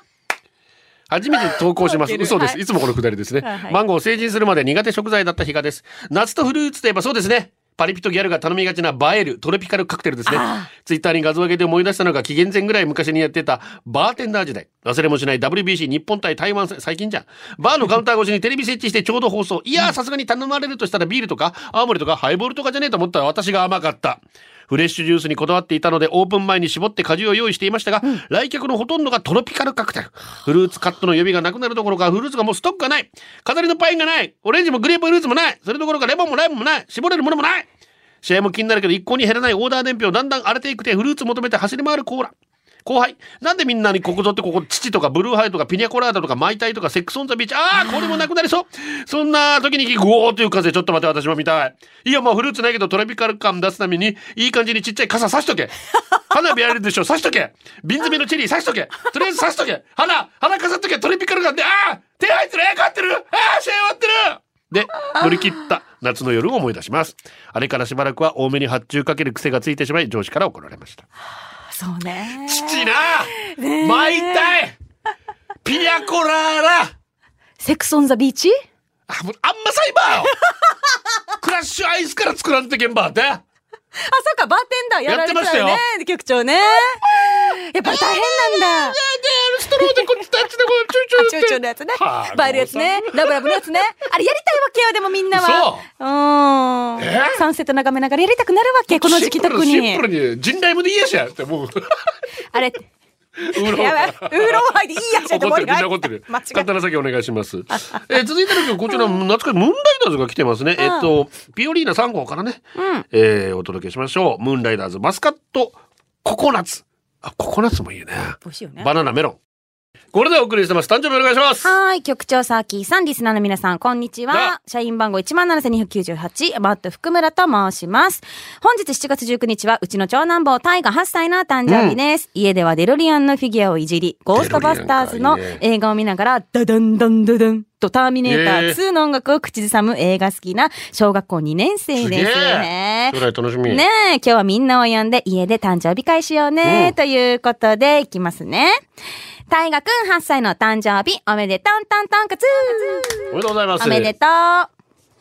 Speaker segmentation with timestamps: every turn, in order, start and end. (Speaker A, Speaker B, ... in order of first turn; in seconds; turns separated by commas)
Speaker A: 1.1-37.7, Speaker B: 1.8-2.6, Speaker B: 3.4-3.8, Speaker B: 10.2-10.7, Speaker A: 38.2-42.3, Speaker A: 42.8-55.7, Speaker A: 56.3-71.0, Speaker B: 71.7-74.5, Speaker A: 72.4-74.8, Speaker A: 75.6-76.9, Speaker B: 77.6-78.6, Speaker A: 79.1-80.3, Speaker A: 81.4-83.4, Speaker B: 84.0-89.0, Speaker A: 85.0-85.8, Speaker A: 87.8-93.6, Speaker B: 89.8-90.0, Speaker B: 91.2-100.0, Speaker A: 95.3-95.8, Speaker A: 97.0-97.4, Speaker A: 98.9-102.1, Speaker B: 102.5-102.8, Speaker A: 103.4-119.4, Speaker B: 103.5-106.7, Speaker B: 107.7-108.0, Speaker B: 110.8-111.1, Speaker B: 112.8-113.0, Speaker B: 118.4-118.9, Speaker A: 120.1-121.7, Speaker B: 121.6-148.8, Speaker A: 124.3-124.5, Speaker A: 131.7-132.0, Speaker A: 134.3-135.6, Speaker A: 138.2-138.8, Speaker A: 141.9-143.8, Speaker A: 146.6-146.9, Speaker B: 149.5-154.7, Speaker A: 153.3-154.1